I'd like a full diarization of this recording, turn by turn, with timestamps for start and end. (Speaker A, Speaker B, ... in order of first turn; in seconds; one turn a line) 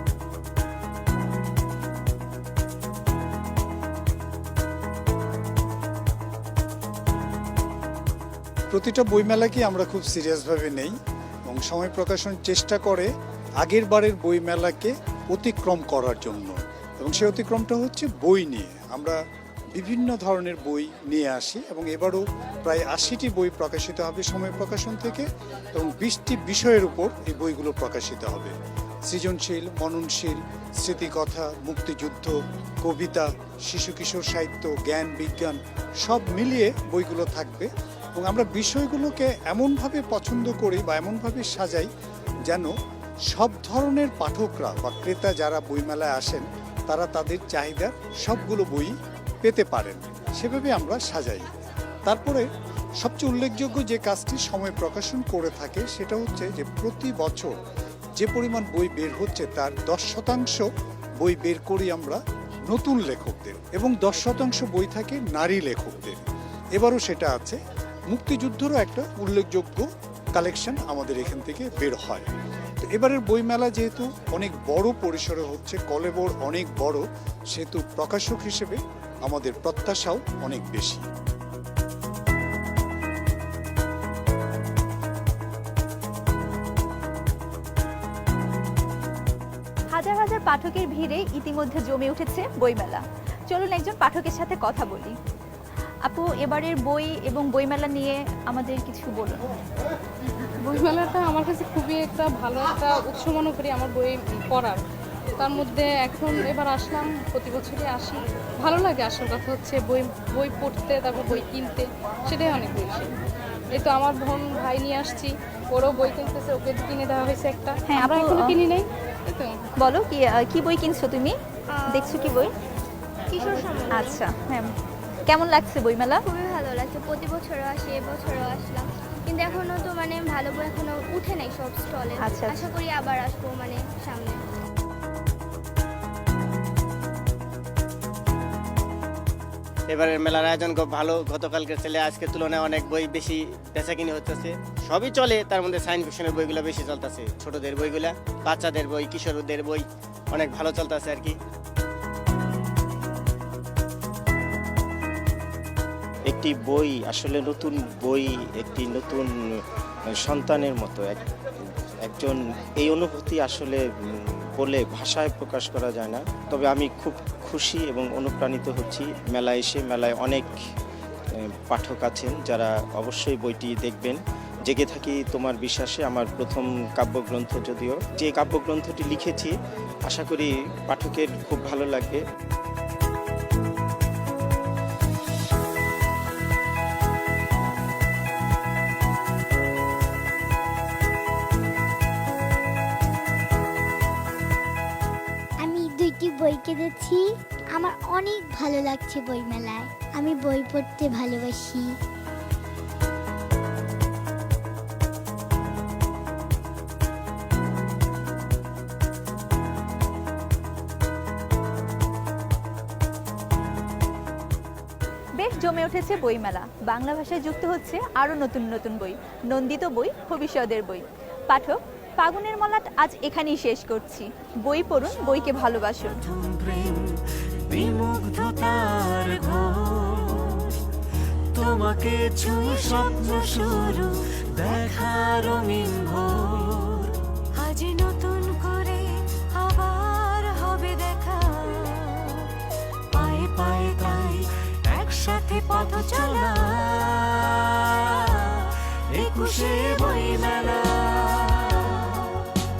Speaker A: 8.7-10.9
Speaker A: 11.5-13.1
Speaker A: 13.6-19.2
Speaker A: 19.8-28.5
Speaker A: 29.1-41.9
Speaker A: 43.3-51.5
Speaker A: 52.0-52.5
Speaker A: 53.0-57.5
Speaker A: 58.2-60.6
Speaker A: 61.2-66.2
Speaker A: 66.8-67.6
Speaker A: 68.1-72.3
Speaker A: 72.8-81.0
Speaker B: 89.9-95.1
Speaker B: 96.0-99.4
Speaker C: 100.6-104.8
Speaker C: 105.4-113.1
Speaker C: 113.7-119.6
Speaker B: 117.9-118.5
Speaker B: 119.8-121.3
Speaker D: 121.7-122.2
Speaker B: 121.9-122.5
Speaker D: 123.3-124.2
Speaker B: 123.9-124.7
Speaker B: 125.3-126.2
Speaker D: 126.3-134.4
Speaker B: 132.2-132.6
Speaker E: 139.9-151.4
Speaker F: 156.3-159.3
Speaker F: 160.2-161.2
Speaker F: 162.0-163.8
Speaker F: 164.6-170.5
Speaker F: 171.7-179.5
Speaker F: 180.1-182.2
Speaker G: 195.6-197.2
Speaker G: 197.8-201.8
Speaker B: 215.4-226.2
Speaker H: 226.3-230.7
Speaker H: 231.6-237.1
Speaker H: 243.2-252.2